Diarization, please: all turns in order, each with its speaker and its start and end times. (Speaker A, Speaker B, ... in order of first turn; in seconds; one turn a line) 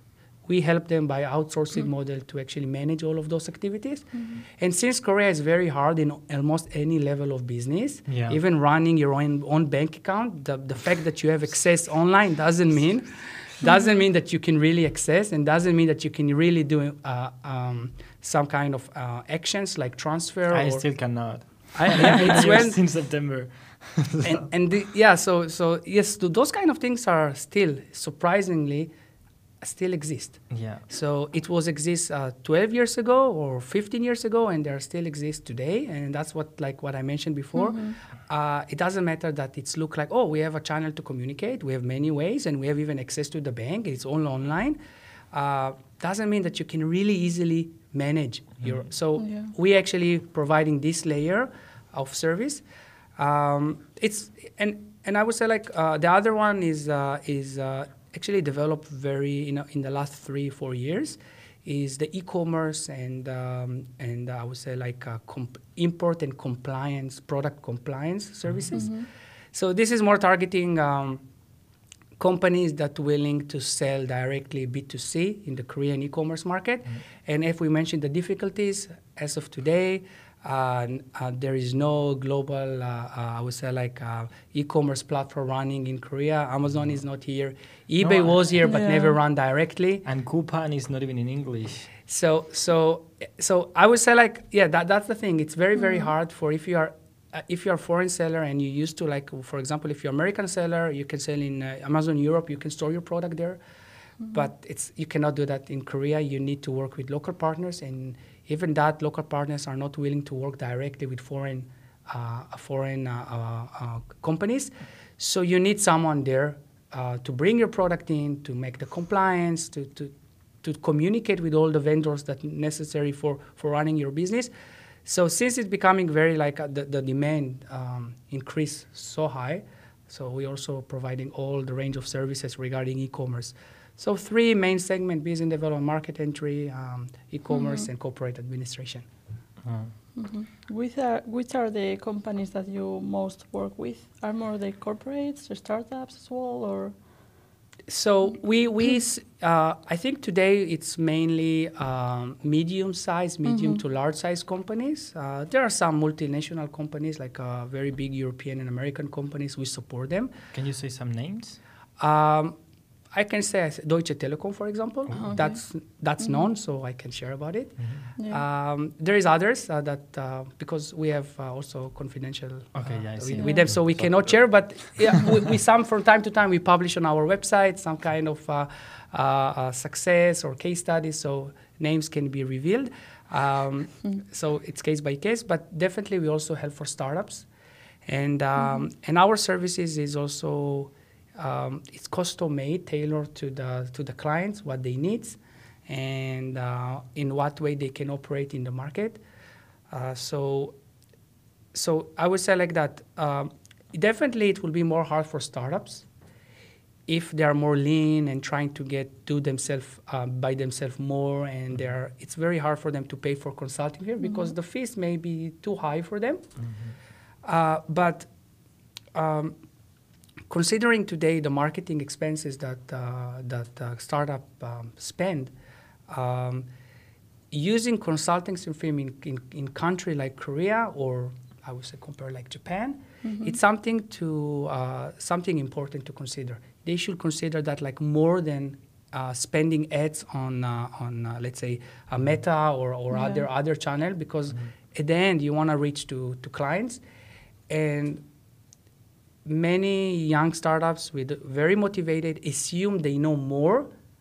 Speaker A: 0.5-22.8
Speaker B: 8.1-8.4
Speaker B: 20.5-24.5
Speaker A: 24.2-28.9
Speaker A: 29.6-44.8
Speaker B: 30.5-30.9
Speaker C: 37.5-38.0
Speaker A: 45.3-52.6
Speaker C: 49.2-49.5
Speaker A: 53.2-71.2
Speaker C: 68.7-69.1
Speaker A: 72.2-90.0
Speaker B: 88.0-88.6
Speaker C: 88.6-89.2
Speaker B: 90.0-91.9
Speaker A: 92.1-103.6
Speaker C: 95.8-96.1
Speaker A: 104.3-124.5
Speaker A: 125.0-139.1
Speaker C: 137.5-137.9
Speaker B: 139.6-139.9
Speaker C: 140.2-146.9
Speaker A: 147.9-160.3
Speaker C: 153.4-153.8
Speaker B: 160.5-161.6
Speaker A: 162.0-162.6
Speaker A: 163.1-187.5
Speaker B: 165.1-165.4
Speaker C: 165.2-165.6
Speaker C: 166.2-166.5
Speaker B: 167.8-168.1
Speaker C: 168.2-168.4
Speaker B: 172.8-174.4
Speaker C: 173.3-173.7
Speaker A: 188.1-199.2
Speaker A: 199.9-200.8
Speaker A: 201.7-206.1
Speaker A: 207.1-216.5
Speaker C: 214.2-214.5
Speaker B: 216.6-216.9
Speaker A: 217.4-218.3
Speaker A: 219.1-219.6
Speaker A: 220.5-225.5
Speaker A: 226.1-226.7
Speaker A: 227.5-247.0
Speaker C: 233.2-233.6
Speaker C: 243.1-243.4
Speaker A: 247.7-248.2
Speaker A: 249.4-253.9